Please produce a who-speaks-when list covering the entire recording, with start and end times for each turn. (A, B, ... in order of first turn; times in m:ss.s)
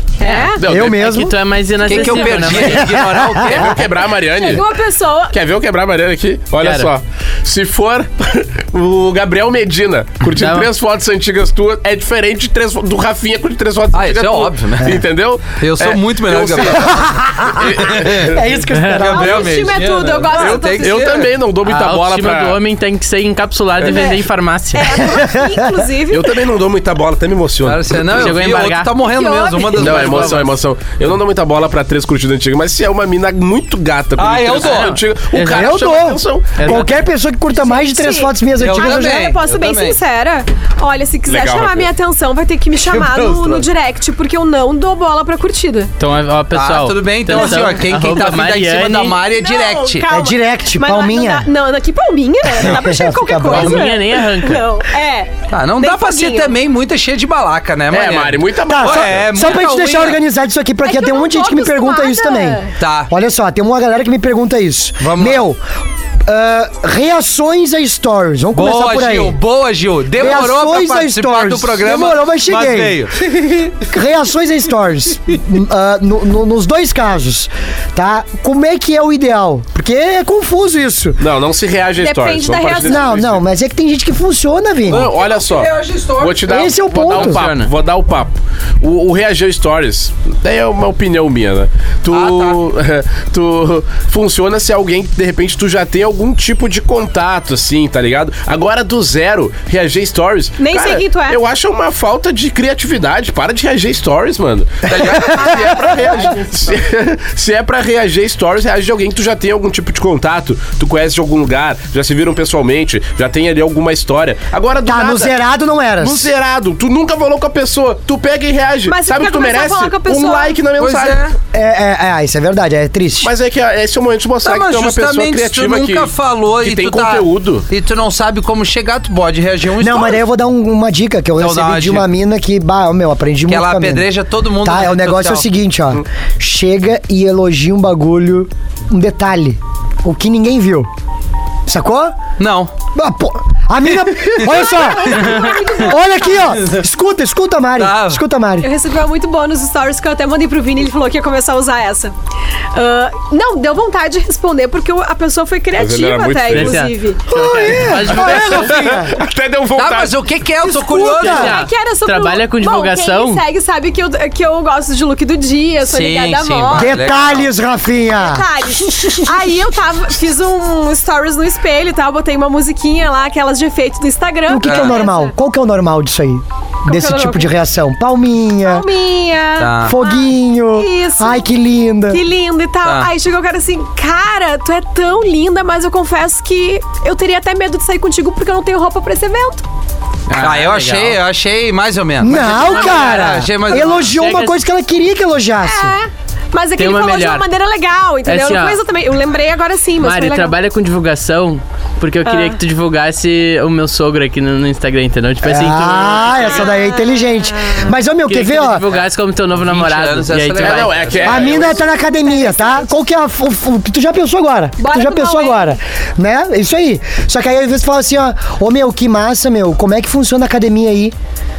0:00.2-0:00.6 A
0:00.2-0:03.0 B
0:00.6-0:01.2 C
0:00.6-0:01.3 D
0:01.8-0:03.8 E
0:01.8-0:02.7 A
0:02.7-0:03.7 D
0:03.4-0:04.6 C
0:04.3-0:05.3 A
0:05.3-0:18.4 C
0:06.6-0:06.9 B
0:10.4-0:10.7 B
0:13.9-0:15.0 E
0:15.6-0:16.9 E
0:16.8-0:19.5 D
0:17.9-0:18.4 E
0:18.7-0:19.1 B
0:18.9-0:21.3 E
0:19.0-0:21.2 A
0:20.3-0:22.6 C
0:21.6-0:25.0 B
0:23.8-0:24.2 A
0:24.7-0:26.3 A
0:25.1-0:25.6 D
0:26.1-0:28.4 C
0:27.6-0:30.5 E
0:28.1-0:28.9 B
0:29.0-0:30.0 A
0:29.8-0:36.8 C
0:29.8-0:30.4 B
0:34.2-0:34.9 E
0:34.6-0:35.7 B
0:35.4-0:39.3 D
0:36.6-0:36.9 B
0:37.5-0:45.9 A
0:38.6-0:40.0 E
0:41.3-0:41.9 C
0:43.3-0:43.6 C
0:46.0-0:49.2 B
0:46.5-0:50.0 E
0:49.2-0:56.6 A
0:50.1-0:51.5 D
0:52.5-0:53.8 D
0:53.5-0:54.6 B
0:55.5-1:00.2 E
0:57.9-0:59.3 C
0:58.7-1:05.6 D
1:00.8-1:02.7 A
1:02.8-1:03.1 E
1:05.0-1:05.4 E
1:06.2-1:09.4 D
1:08.5-1:13.7 E
1:10.2-1:13.0 D
1:13.7-1:21.2 D
1:21.2-1:23.4 C
1:22.0-1:23.1 A
1:22.8-1:25.1 D
1:24.9-1:55.3 C
1:24.9-1:26.7 E
1:26.5-1:27.4 D
1:27.1-1:27.7 B
1:32.1-1:32.6 E
1:40.6-1:41.4 A
1:44.8-1:45.9 E
1:44.9-1:46.4 D
1:54.8-1:56.3 D
1:56.0-2:01.3 C
1:58.9-2:00.6 A
2:00.8-2:01.3 E
2:01.5-2:03.3 D
2:03.2-2:07.6 C
2:04.4-2:10.2 E
2:09.8-2:14.1 D
2:11.4-2:12.1 E
2:13.5-2:15.5 E
2:14.6-2:20.9 D
2:21.7-2:22.2 D
2:22.4-2:22.7 E
2:22.9-2:28.6 D
2:24.1-2:24.5 E
2:24.5-2:26.4 A
2:27.8-2:28.2 E
2:28.6-2:32.1 A
2:32.7-2:37.2 A
2:35.7-2:36.8 C
2:36.5-2:38.7 B
2:37.3-2:39.1 D
2:37.6-2:40.2 C
2:39.7-2:41.6 E
2:40.6-2:41.5 D
2:40.8-2:47.0 A
2:41.2-2:43.4 B
2:45.8-2:47.5 E
2:46.7-2:49.2 D
2:48.1-2:55.3 A
2:54.5-2:58.9 D
2:54.6-2:55.0 E
2:56.8-2:57.5 A
2:58.6-3:01.5 A
2:59.6-3:00.0 E
2:59.8-3:02.2 D
3:02.1-3:09.6 A
3:02.8-3:03.1 E
3:10.3-3:11.2 B
3:10.3-3:14.1 E
3:12.2-3:15.9 D
3:12.5-3:14.6 B
3:12.7-3:12.9 A
3:15.6-3:20.5 A
3:16.8-3:17.4 B
3:18.2-3:18.8 B
3:20.0-3:26.7 B
3:22.2-3:22.6 A
3:25.4-3:28.8 D
3:26.4-3:27.9 A
3:28.3-3:31.0 B
3:29.6-3:31.7 E
3:30.6-3:31.8 C
3:31.2-3:41.1 D
3:31.4-3:32.9 A
3:34.8-3:35.8 A